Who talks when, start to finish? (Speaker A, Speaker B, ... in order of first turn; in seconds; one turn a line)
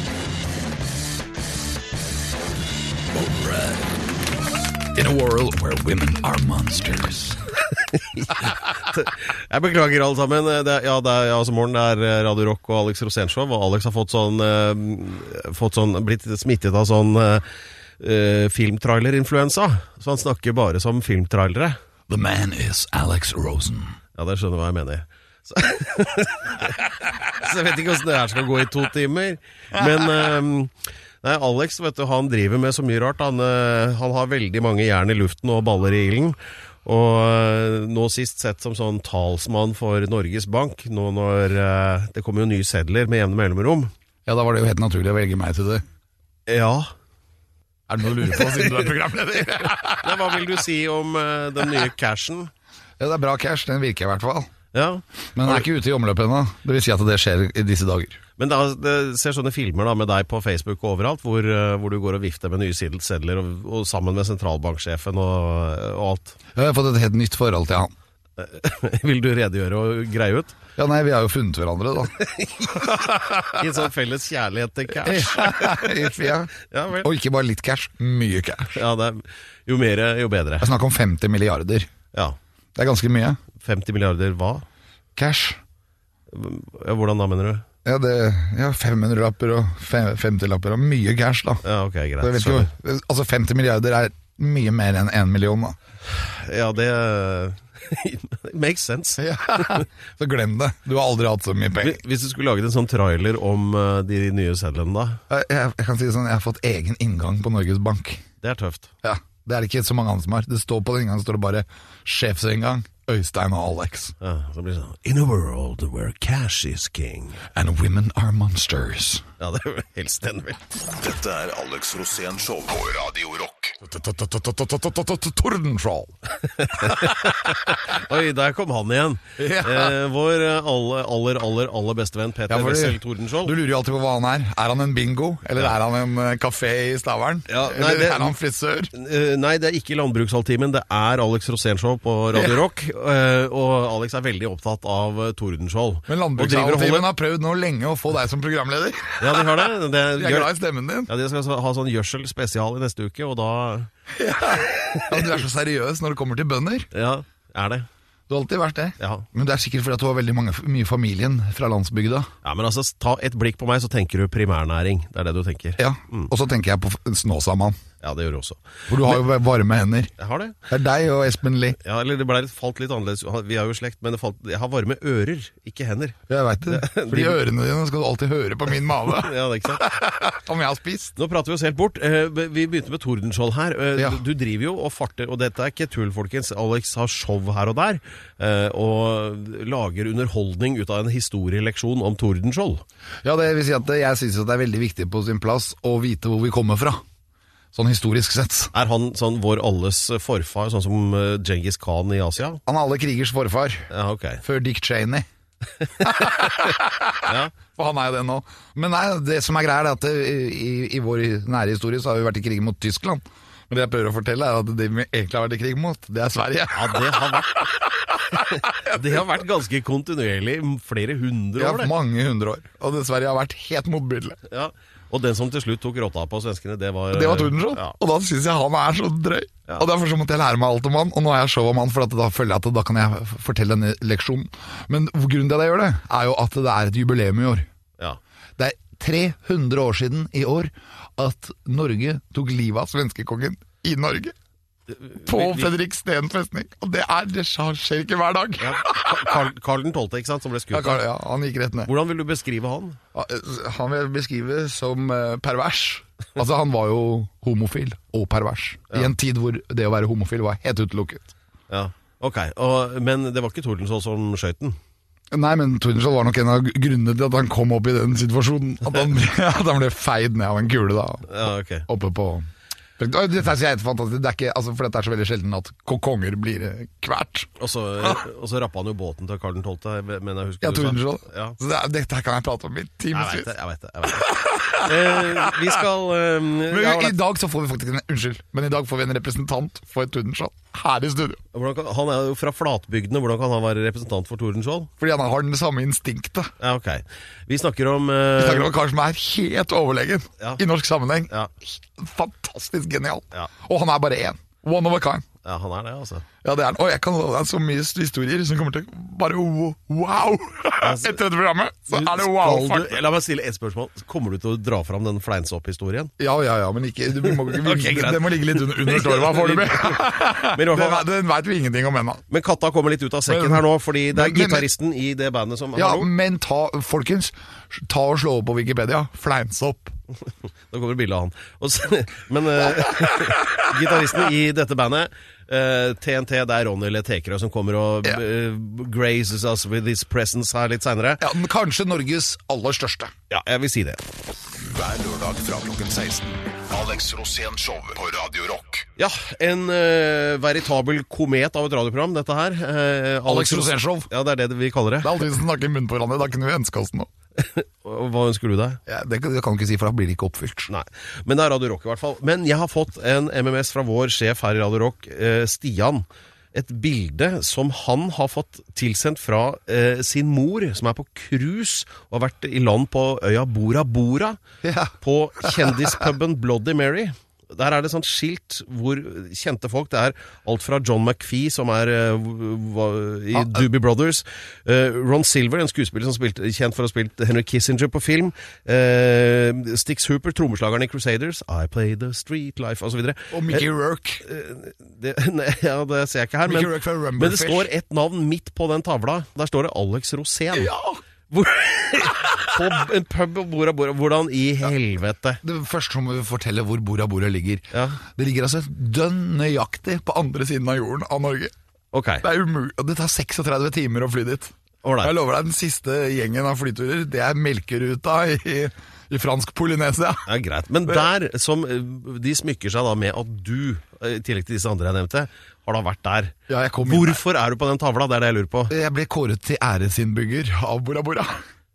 Speaker A: 3.1-3.9
Speaker A: 5.0-7.4
Speaker B: 8.0-17.4
Speaker B: 18.0-21.8
Speaker A: 22.1-24.0
Speaker B: 24.2-43.9
Speaker A: 44.3-45.8
Speaker B: 46.5-46.9
Speaker A: 47.9-50.4
Speaker B: 50.0-52.5
Speaker A: 53.0-54.5
Speaker B: 54.7-55.6
Speaker A: 55.4-58.2
Speaker B: 58.4-66.4
Speaker A: 66.5-67.9
Speaker B: 68.4-70.5
Speaker A: 70.8-72.2
Speaker B: 72.2-76.0
Speaker A: 73.3-73.6
Speaker A: 75.0-78.8
Speaker B: 76.6-77.1
Speaker B: 78.8-80.7
Speaker A: 80.6-81.9
Speaker A: 82.8-83.4
Speaker B: 83.6-84.7
Speaker A: 85.2-85.6
Speaker B: 86.3-87.6
Speaker A: 87.8-91.6
Speaker B: 91.6-92.7
Speaker A: 92.2-95.8
Speaker B: 96.1-99.2
Speaker A: 99.2-102.0
Speaker B: 101.8-105.2
Speaker A: 105.3-108.2
Speaker B: 108.4-108.9
Speaker A: 109.0-114.1
Speaker B: 114.2-117.4
Speaker A: 117.5-119.2
Speaker B: 119.4-120.6
Speaker C: 120.8-123.8
Speaker A: 123.8-126.1
Speaker B: 126.6-133.5
Speaker A: 129.4-129.9
Speaker A: 132.5-138.9
Speaker B: 137.5-138.3
Speaker B: 138.9-147.1
Speaker A: 146.1-149.6
Speaker B: 149.2-150.5
Speaker A: 150.2-151.1
Speaker B: 151.1-153.9
Speaker A: 154.2-156.9
Speaker B: 156.9-157.9
Speaker A: 158.3-162.3
Speaker B: 159.0-159.2
Speaker B: 162.4-166.3
Speaker A: 165.8-167.8
Speaker B: 168.0-168.6
Speaker A: 168.9-170.1
Speaker B: 170.2-170.6
Speaker A: 170.7-171.8
Speaker B: 171.8-177.4
Speaker A: 176.3-181.2
Speaker B: 179.1-179.8
Speaker B: 181.2-192.8
Speaker A: 193.2-197.0
Speaker A: 197.7-198.7
Speaker B: 198.7-202.6
Speaker A: 202.7-203.9
Speaker B: 203.9-204.4
Speaker A: 204.4-205.2
Speaker A: 206.0-217.8
Speaker B: 206.3-206.6
Speaker B: 207.3-207.5
Speaker B: 216.7-217.8
Speaker B: 218.3-221.9
Speaker A: 218.3-219.0
Speaker A: 221.6-224.4
Speaker B: 224.5-227.9
Speaker A: 227.1-237.7
Speaker A: 238.6-244.3
Speaker B: 244.9-245.7
Speaker A: 245.2-249.4
Speaker B: 248.6-251.0
Speaker A: 250.7-251.9
Speaker B: 251.9-253.0
Speaker A: 253.2-261.3
Speaker B: 261.7-264.8
Speaker A: 265.3-272.5
Speaker B: 271.3-271.9
Speaker A: 273.0-277.5
Speaker B: 277.6-281.6
Speaker A: 280.6-283.5
Speaker B: 283.1-287.2
Speaker A: 284.1-285.7
Speaker A: 286.7-291.4
Speaker B: 291.5-294.9
Speaker A: 295.0-296.5
Speaker B: 296.6-298.7
Speaker A: 298.4-305.2
Speaker B: 305.4-306.2
Speaker A: 306.4-313.0
Speaker B: 310.8-311.2
Speaker B: 311.9-316.1
Speaker A: 316.2-322.2
Speaker B: 317.2-321.1
Speaker B: 322.3-326.1
Speaker A: 323.3-324.7
Speaker A: 325.8-329.9
Speaker B: 330.7-341.2
Speaker A: 332.8-333.7
Speaker A: 341.2-343.1
Speaker B: 343.3-344.0
Speaker C: 344.6-348.9
Speaker B: 349.0-355.2
Speaker A: 353.3-354.1
Speaker A: 355.0-357.1
Speaker B: 357.4-358.8
Speaker A: 358.9-360.7
Speaker B: 360.7-374.4
Speaker A: 374.6-376.0
Speaker B: 375.0-393.6
Speaker A: 383.3-383.6
Speaker A: 393.3-394.2
Speaker B: 394.2-400.7
Speaker A: 396.5-397.7
Speaker A: 400.5-401.0
Speaker B: 401.3-405.4
Speaker A: 405.4-411.5
Speaker B: 407.7-408.0
Speaker B: 411.9-412.2
Speaker A: 412.2-420.3
Speaker B: 414.8-415.1
Speaker B: 420.3-428.7
Speaker A: 426.5-427.2
Speaker A: 428.7-431.4